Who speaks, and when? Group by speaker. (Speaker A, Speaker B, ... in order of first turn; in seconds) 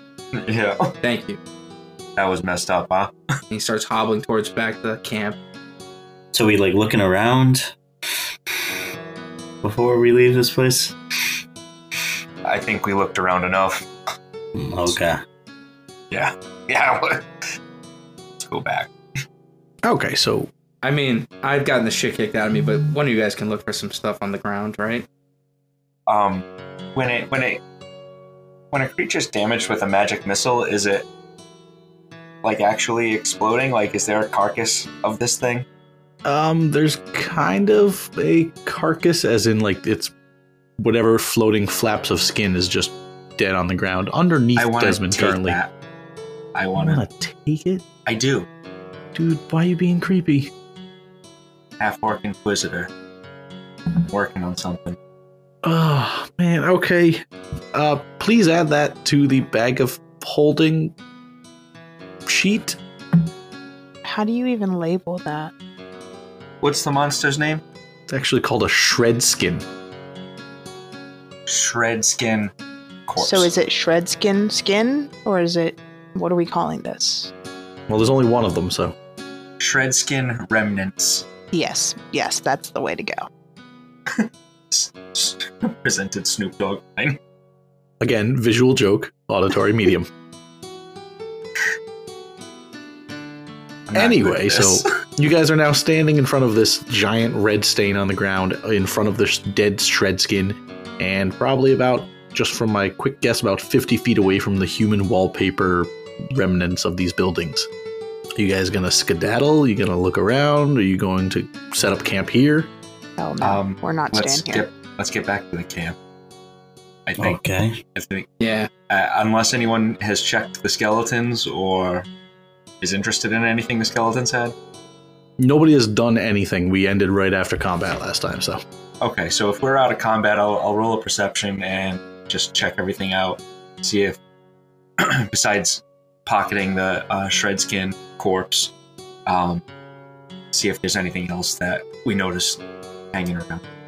Speaker A: 0.3-0.9, 2.1-3.1, 12.4-13.9, 16.1-17.2, 18.4-18.9, 26.1-27.6, 28.7-31.1, 32.4-35.6, 44.5-45.7, 46.5-47.0, 48.0-48.5, 51.8-52.9, 53.9-55.0, 66.6-67.6, 71.5-72.5, 73.1-73.5, 79.6-81.2, 84.1-87.2, 93.9-94.9, 113.4-116.0, 117.0-117.4, 117.9-122.1, 122.8-124.5, 129.0-134.2, 135.0-138.7, 139.2-139.6, 140.5-142.6, 143.1-143.6
Speaker B: 1.0-1.4, 3.5-5.4, 20.8-25.1, 118.4-118.7
Speaker C: 6.3-7.7, 9.6-11.0, 14.5-15.2, 117.2-117.8
Speaker D: 19.8-20.5, 36.2-40.1, 40.8-45.6, 46.8-47.8, 49.1-50.5, 55.6-60.9, 62.2-62.8, 68.1-69.7, 77.9-78.9, 88.0-90.1, 93.9-107.7, 108.3-112.7, 125.4-128.6
Speaker E: 64.0-65.5, 73.2-77.3, 81.5-83.3, 113.2-114.6